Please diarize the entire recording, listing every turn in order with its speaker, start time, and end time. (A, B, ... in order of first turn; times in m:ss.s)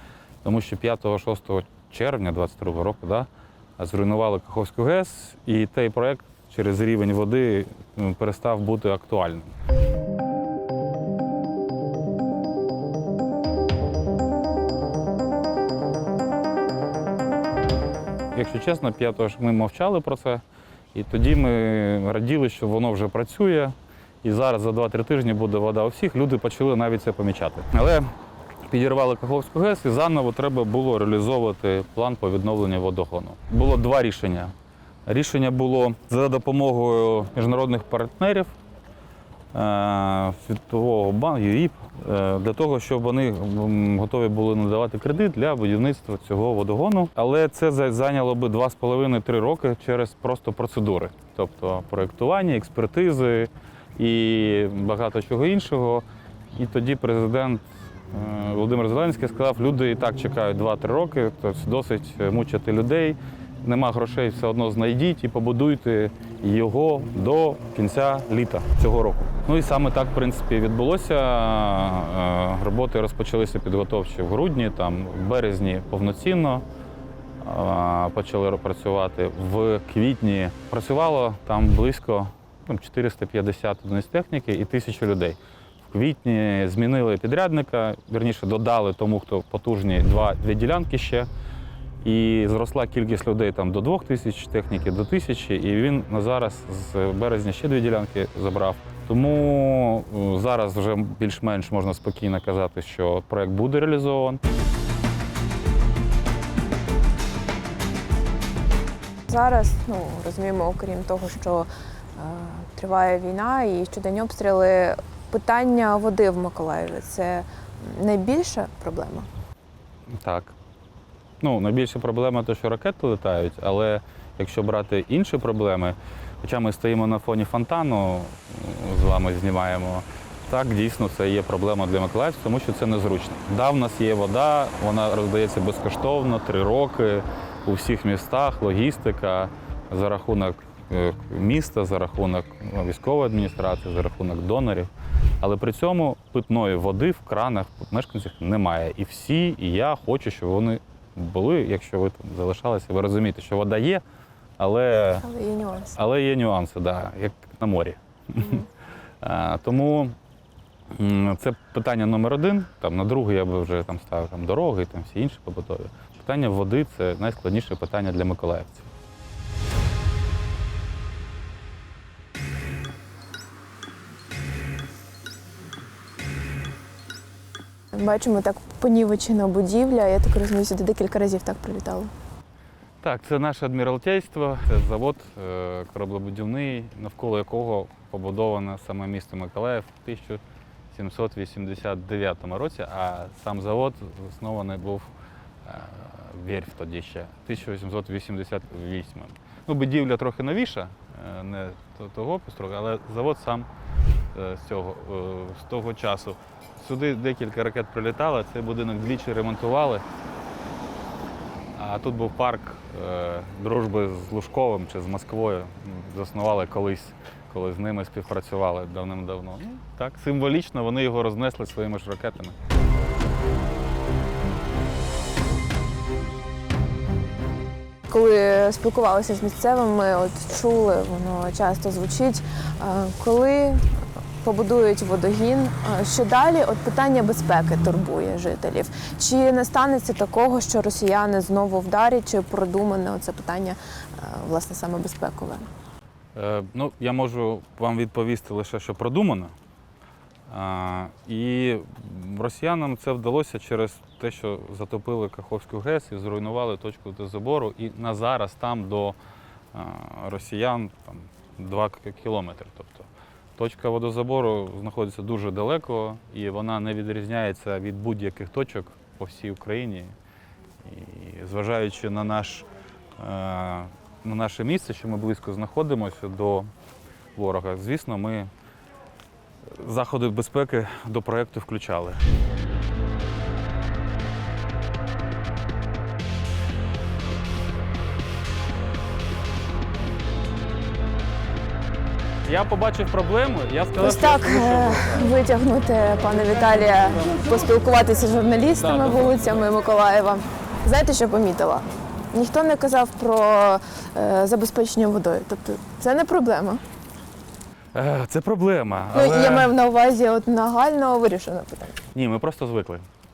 0:00.4-0:09.5 A
0:18.3-0:20.4 A
0:20.9-0:28.1 A
0:28.7-0:34.5 A
0:35.0-0:38.5 A
0:39.5-1:16.6 A
1:17.4-1:31.3 A
1:32.0-1:44.4 A
1:49.3-1:59.3 B
2:00.1-2:00.5 A
2:01.4-2:24.9 A
2:25.4-2:34.0 A
2:34.6-2:35.2 A
2:35.2-2:36.0 B
2:35.9-2:38.6 A
2:39.2-2:40.1 A
2:40.9-2:48.9 A
2:57.9-3:02.1 B
3:03.0-3:10.4 A
3:10.9-3:15.1 A
3:15.6-3:23.7 A
3:24.3-3:30.0 A
3:31.8-3:42.6 A
3:48.1-3:53.8 B
3:54.4-4:05.6 B
4:06.3-4:09.5 A
4:10.5-4:19.2 A
4:19.7-4:30.1 A
4:30.8-4:32.7 A
4:33.2-4:36.7 A
4:37.4-4:38.5 A
4:39.7-4:42.2 A
4:52.4-4:55.3 A
4:54.0-5:06.8 B
4:58.8-4:59.5 A
5:07.9-5:09.7 A
5:09.1-5:12.0 B
5:12.1-5:13.0 A